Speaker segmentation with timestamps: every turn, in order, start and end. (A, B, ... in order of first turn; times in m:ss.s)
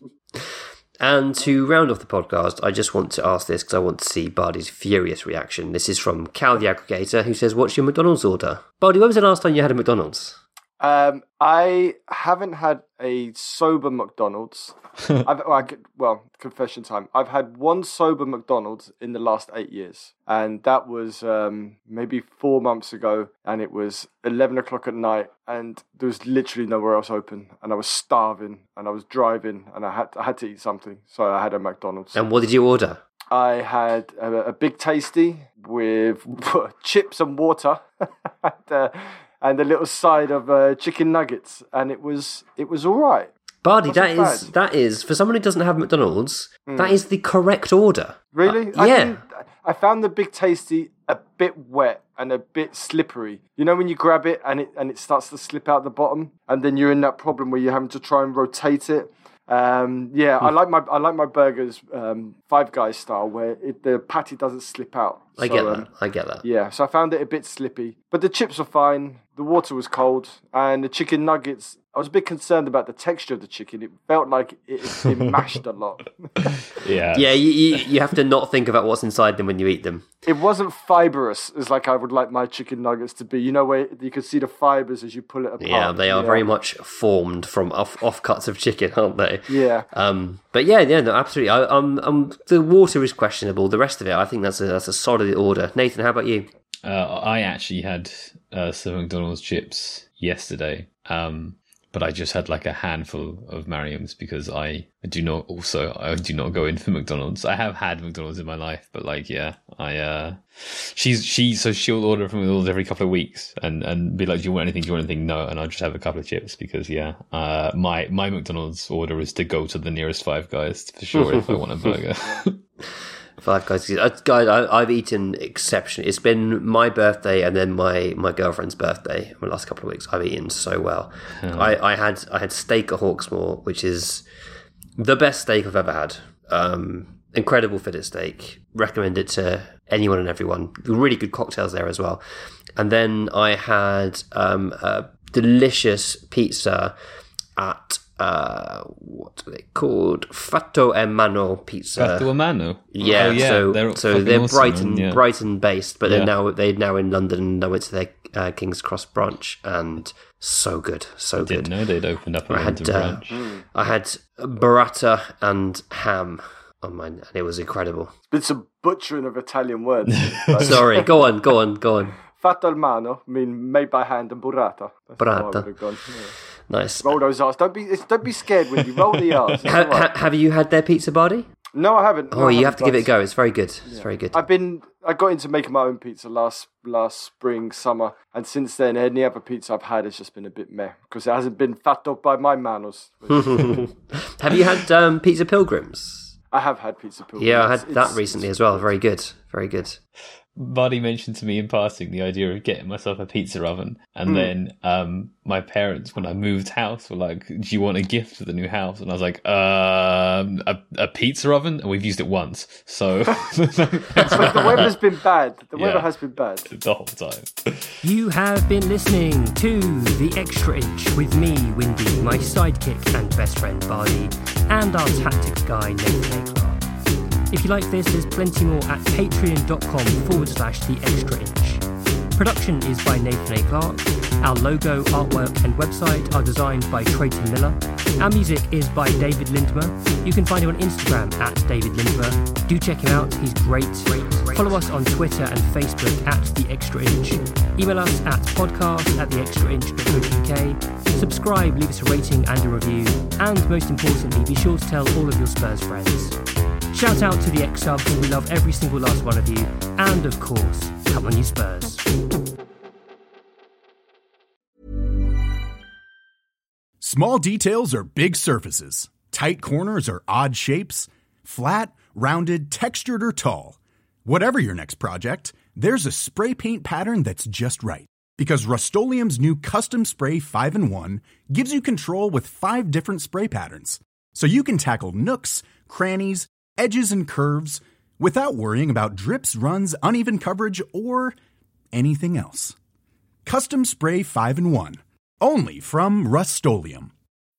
0:00.3-0:10.4 A
0:10.8-0:32.3 B
0:32.1-0:33.0 A
0:33.3-0:43.3 B
0:43.6-0:49.2 A
0:43.9-0:44.5 B
0:46.7-0:47.0 B
0:48.3-1:05.9 B
1:05.4-1:06.4 A
1:06.4-1:16.5 B
1:16.7-1:17.5 C
1:17.1-1:20.1 A
1:20.2-1:26.4 B
1:25.6-1:36.5 A
1:29.5-1:29.9 B
1:36.8-2:02.5 C
2:01.2-2:01.6 A
2:03.4-2:14.3 A
2:11.4-2:11.8 C
2:15.0-2:22.2 A
2:22.8-2:27.0 A
2:27.6-2:32.3 A
2:32.0-2:35.2 C
2:32.9-2:41.7 A
2:33.0-2:33.4 B
2:36.0-2:36.3 C
2:41.4-2:43.4 C
2:42.5-2:48.1 A
2:43.3-2:43.6 B
2:48.3-2:51.0 B
2:50.6-2:52.2 A
2:52.3-2:56.4 B
2:55.2-2:55.7 A
2:56.7-2:57.2 A
2:57.0-3:00.1 B
2:59.6-3:01.5 A
3:01.7-3:03.1 B
3:02.3-3:04.4 A
3:03.8-3:13.8 B
3:13.4-3:16.3 A
3:16.5-3:19.0 B
3:17.4-3:20.0 A
3:20.6-3:34.9 C
3:34.2-3:36.7 B
3:35.8-3:36.1 C
3:36.7-3:37.9 C
3:38.0-3:46.8 D
3:47.5-3:51.8 D
3:52.3-4:16.4 D
4:16.9-4:22.0 D
4:27.0-4:51.3 E
4:51.9-4:52.7 E
4:53.4-4:57.1 E